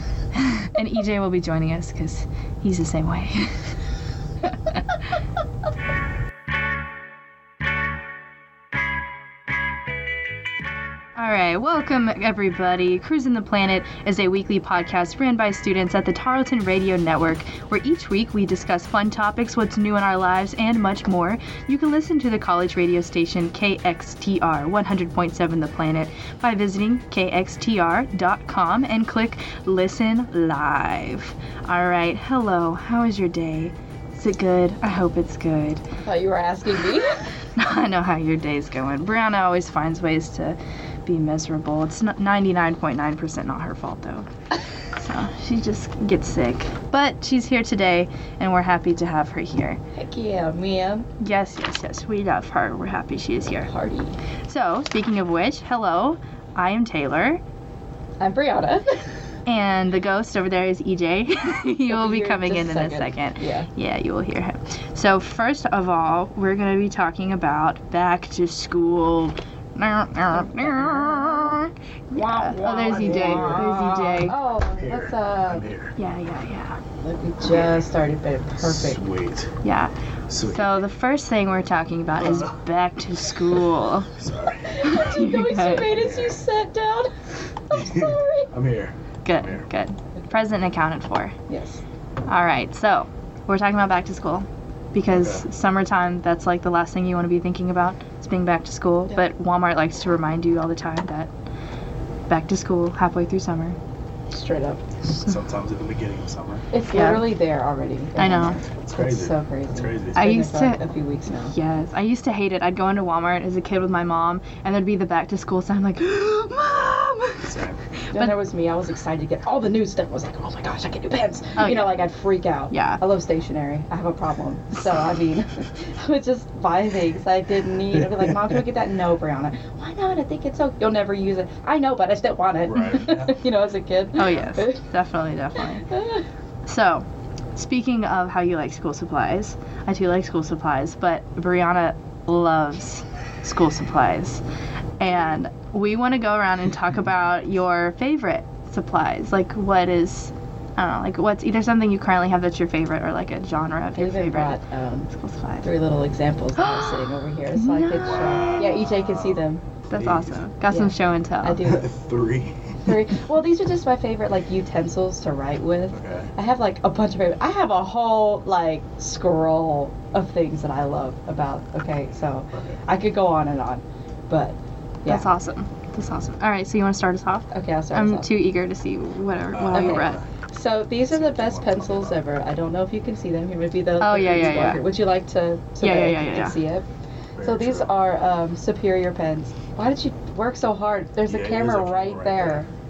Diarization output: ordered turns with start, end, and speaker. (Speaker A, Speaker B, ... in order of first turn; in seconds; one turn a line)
Speaker A: 0.3-3.7
Speaker A: 4.7-5.0
Speaker A: 11.2-35.8
Speaker B: 36.0-37.1
Speaker A: 37.5-44.3
Speaker A: 45.0-49.8
Speaker B: 50.0-51.1
Speaker A: 51.2-53.7
Speaker B: 53.6-54.2
Speaker A: 54.5-57.4
Speaker B: 58.2-59.0
Speaker A: 59.5-74.4
Speaker B: 61.9-63.7
Speaker B: 70.3-71.6
Speaker B: 72.1-75.7
Speaker C: 72.8-73.8
Speaker C: 74.6-75.9
Speaker A: 76.0-76.8
Speaker B: 77.0-79.0
Speaker C: 77.4-77.9
Speaker C: 78.6-79.5
Speaker A: 79.6-84.1
Speaker C: 80.3-80.7
Speaker C: 82.2-82.6
Speaker C: 84.1-84.9
Speaker B: 84.7-87.1
Speaker A: 84.8-85.9
Speaker C: 85.9-86.4
Speaker B: 87.7-88.5
Speaker C: 87.7-89.6
Speaker A: 89.2-91.3
Speaker B: 91.5-91.8
Speaker A: 92.2-101.3
Speaker C: 95.1-95.4
Speaker A: 102.3-103.8
Speaker B: 104.3-104.8
Speaker C: 105.2-106.7
Speaker B: 106.7-111.5
Speaker A: 106.9-107.3
Speaker A: 108.2-108.6
Speaker C: 108.8-110.3
Speaker A: 110.2-110.8
Speaker A: 111.5-117.4
Speaker C: 116.6-117.8
Speaker A: 118.0-118.3
Speaker B: 118.1-134.8
Speaker A: 121.6-122.0
Speaker A: 122.7-123.0
Speaker C: 128.0-128.3
Speaker C: 132.7-133.4
Speaker A: 134.2-135.8
Speaker B: 135.9-136.2
Speaker A: 136.7-144.4
Speaker A: 145.0-154.6
Speaker B: 154.0-155.1
Speaker A: 155.1-155.7
Speaker B: 155.6-159.6
Speaker A: 156.6-158.2
Speaker C: 158.0-160.4
Speaker A: 159.9-161.6
Speaker B: 160.7-161.8
Speaker C: 161.6-162.9
Speaker B: 162.8-175.2
Speaker C: 165.9-166.3
Speaker C: 172.5-172.8
Speaker A: 175.1-180.2
Speaker B: 177.5-178.3
Speaker C: 179.5-180.2
Speaker B: 179.7-186.8
Speaker C: 181.1-182.2
Speaker A: 184.0-184.8
Speaker A: 185.8-186.6
Speaker C: 187.3-187.9
Speaker B: 187.4-192.7
Speaker C: 191.2-192.6